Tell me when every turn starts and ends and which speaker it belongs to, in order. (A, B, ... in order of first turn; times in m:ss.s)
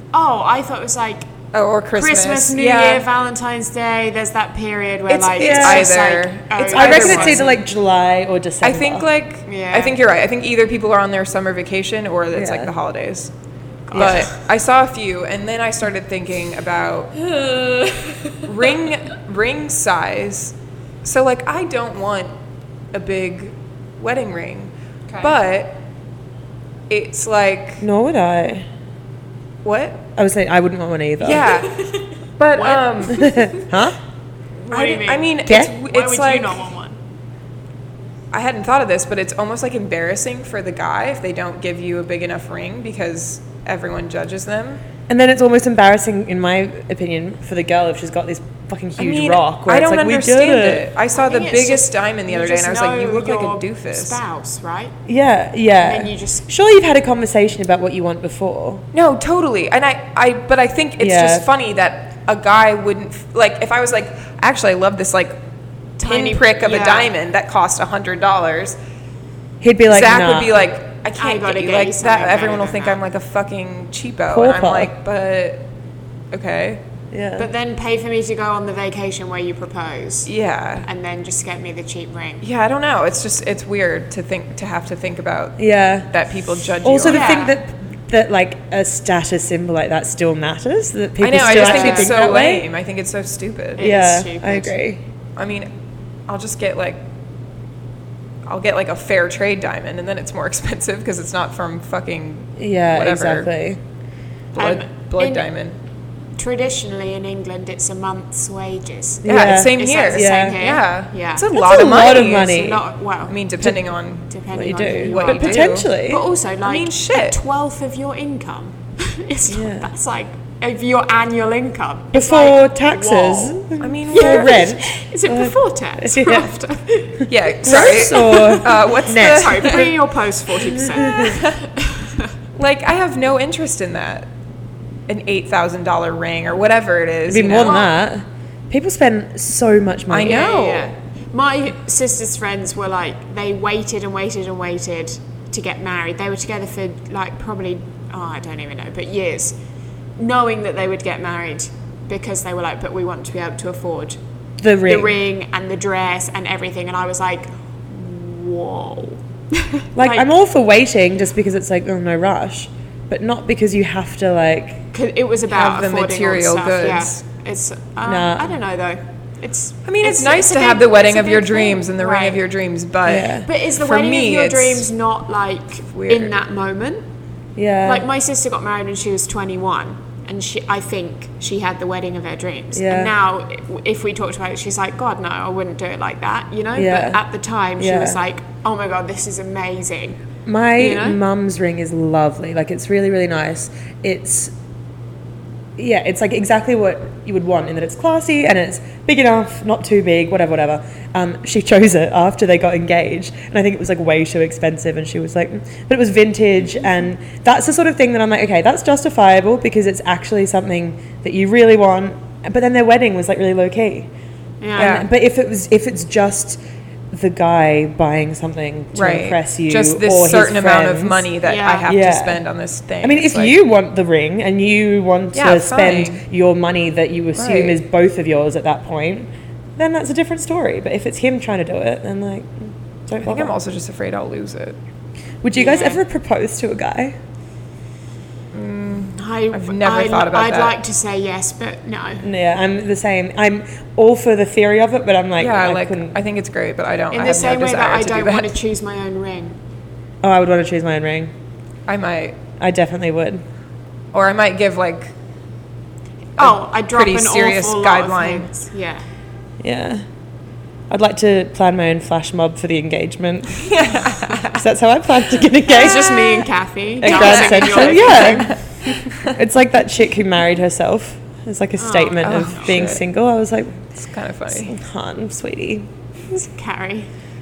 0:00.1-0:01.3 A
0:01.5-0:03.1 B
0:01.9-0:07.5 A
0:05.1-0:06.0 C
0:05.4-0:07.6 B
0:06.7-0:09.1 C
0:08.6-0:13.3 B
0:09.5-0:10.0 A
0:12.3-0:12.7 C
0:13.9-0:14.3 A
0:13.9-0:17.2 B
0:13.9-0:14.3 C
0:17.3-0:18.5 A
0:18.4-0:22.3 B
0:22.9-0:25.8 B
0:25.1-0:25.3 A
0:26.9-0:27.8 B
0:27.8-0:28.7 C
0:29.6-0:30.1 B
0:30.2-0:31.6 C
0:31.2-0:31.8 B
0:31.7-0:32.0 A
0:32.4-0:33.3 B
0:32.6-0:33.7 A
0:33.1-0:34.0 C
0:34.6-0:37.0 A
0:34.7-0:36.6 B
0:35.5-0:35.8 C
0:38.3-0:44.8 B
0:45.1-0:50.9 C
0:49.0-0:54.2 B
0:51.2-0:54.9 A
0:55.1-0:58.8 C
0:55.8-0:56.5 A
0:58.9-1:05.4 B
1:01.0-1:01.5 C
1:06.0-1:07.1 A
1:06.0-1:08.8 B
1:09.6-1:10.6 C
1:09.9-1:15.7 B
1:11.1-1:13.0 A
1:14.3-1:14.9 C
1:16.3-1:16.8 B
1:17.1-1:17.5 C
1:17.4-1:20.3 A
1:20.3-1:20.9 B
1:20.8-1:22.5 A
1:22.4-1:27.4 B
1:25.6-1:26.1 C
1:26.8-1:32.7 C
1:27.0-1:27.6 A
1:31.2-1:33.9 B
1:31.5-1:32.1 A
1:33.8-1:34.8 A
1:33.8-1:35.0 C
1:35.4-1:35.7 B
1:36.3-1:37.0 B
1:38.5-1:43.5 B
1:42.6-1:43.8 C
1:44.6-1:45.5 A
1:44.6-1:45.8 B
1:46.4-1:51.6 A
1:49.2-1:50.6 C
1:49.3-1:52.8 B
1:51.5-1:52.8 C
1:52.4-1:53.4 A
1:53.3-1:54.3 B
1:54.3-2:12.3 A
1:54.5-1:56.2 C
1:55.1-1:55.9 B
1:56.6-1:57.4 B
1:59.5-1:59.9 C
2:02.1-2:06.5 C
2:03.8-2:04.6 B
2:07.3-2:10.0 B
2:07.6-2:09.9 C
2:10.6-2:11.4 C
2:11.1-2:11.6 B
2:12.6-2:14.3 B
2:15.1-2:17.9 B
2:17.3-2:20.5 C
2:17.6-2:17.9 A
2:20.1-2:20.9 B
2:20.2-2:29.6 A
2:30.2-2:34.2 A
2:34.6-2:35.2 C
2:34.8-2:40.3 A
2:40.0-2:44.9 C
2:44.9-2:52.4 A
2:45.5-2:47.2 B
2:48.0-2:48.6 C
2:49.8-2:54.9 B
2:53.1-2:53.5 C
2:53.4-2:57.0 A
2:55.9-2:56.3 B
2:57.6-2:58.1 C
2:57.8-3:10.2 A
3:02.7-3:03.1 C
3:06.8-3:07.2 C
3:07.8-3:08.2 C
3:10.5-3:14.5 C
3:10.8-3:11.2 A
3:15.8-3:34.1 C
3:34.6-3:35.0 A
3:34.8-3:36.6 C
3:34.8-3:35.1 B
3:37.1-3:41.3 C
3:38.9-3:43.6 B
3:41.4-3:41.9 A
3:41.9-3:42.4 C
3:43.0-3:53.6 C
3:45.3-3:46.2 B
3:47.4-3:47.8 B
3:53.2-3:54.8 B
3:55.4-3:57.2 C
3:55.6-3:56.0 A
3:58.5-4:00.8 B
3:59.2-4:02.3 A
4:02.2-4:06.2 C
4:05.4-4:08.6 B
4:07.1-4:09.6 A
4:10.2-4:11.3 C
4:11.9-4:12.4 B
4:12.6-4:13.4 C
4:14.1-4:15.1 B
4:16.4-4:19.0 A
4:16.4-4:18.5 B
4:19.6-4:20.0 C
4:20.9-4:23.7 C
4:23.6-4:24.6 B
4:24.3-4:26.5 C
4:25.7-4:28.6 A
4:27.0-4:28.6 C
4:27.0-4:29.4 B
4:29.2-4:33.8 C
4:31.8-4:32.8 A
4:32.2-4:33.0 B
4:33.9-4:34.7 B
4:34.5-4:35.9 C
4:36.3-4:37.1 A